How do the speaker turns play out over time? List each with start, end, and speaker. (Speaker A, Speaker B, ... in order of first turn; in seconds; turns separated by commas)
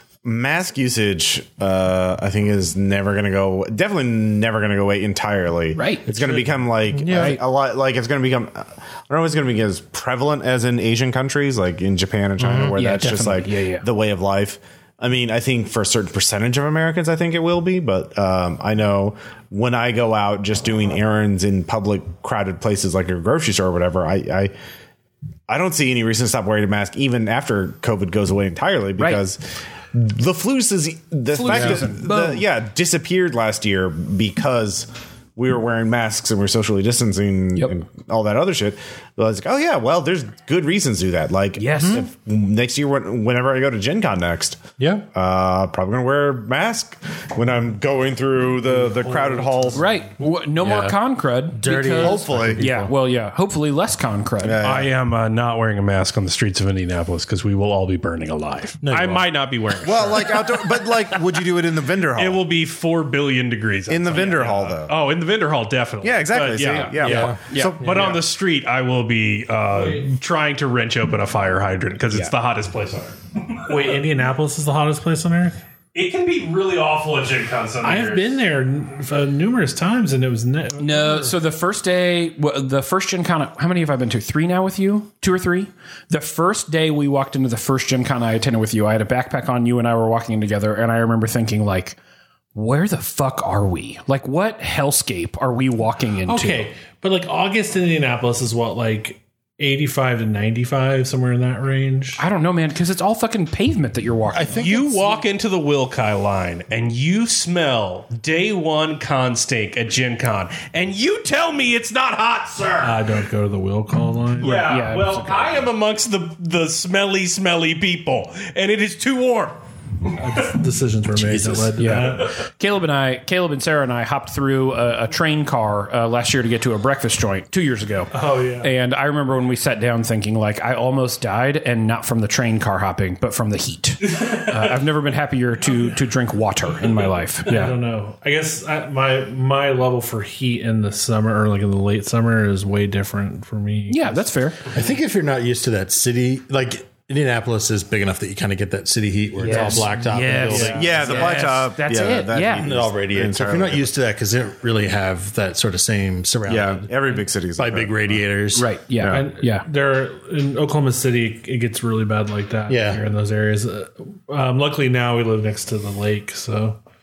Speaker A: 0.2-24.5, Speaker B: 5.8-6.1, Speaker C: 6.1-7.4, Speaker B: 7.1-7.4, Speaker C: 12.4-13.3, Speaker B: 12.8-13.9, Speaker A: 25.5-29.4, Speaker A: 29.9-49.9, Speaker B: 31.3-32.4, Speaker C: 31.5-31.8, Speaker B: 41.6-42.0, Speaker C: 41.8-42.0, Speaker C: 44.8-45.1, Speaker D: 48.7-50.0, Speaker B: 49.7-54.6, Speaker C: 50.6-52.9, Speaker A: 51.9-52.6, Speaker A: 54.4-54.9, Speaker E: 54.6-61.2, Speaker C: 58.8-59.3, Speaker A: 59.8-62.4, Speaker E: 62.2-73.9, Speaker A: 63.9-65.0, Speaker A: 66.0-67.8, Speaker B: 66.9-68.1, Speaker C: 67.0-67.4, Speaker D: 69.7-70.0, Speaker D: 73.7-75.6, Speaker E: 76.0-78.3, Speaker D: 77.8-81.4, Speaker B: 80.8-92.0, Speaker B: 92.5-96.7, Speaker D: 96.2-102.2, Speaker B: 102.2-105.0, Speaker C: 104.3-105.2, Speaker E: 104.6-113.0, Speaker D: 112.8-114.7, Speaker E: 114.4-119.6, Speaker B: 114.4-115.7, Speaker D: 120.1-122.4, Speaker C: 121.2-121.8, Speaker B: 121.8-137.8, Speaker D: 128.1-128.7, Speaker D: 134.2-134.8, Speaker D: 137.5-144.2, Speaker B: 143.9-144.6, Speaker C: 144.7-151.4, Speaker D: 149.4-151.1, Speaker B: 149.4-152.7, Speaker A: 150.7-153.9, Speaker C: 152.6-158.7, Speaker A: 156.5-158.2, Speaker B: 158.5-159.7, Speaker A: 159.0-159.3, Speaker D: 159.1-166.8, Speaker C: 162.7-163.0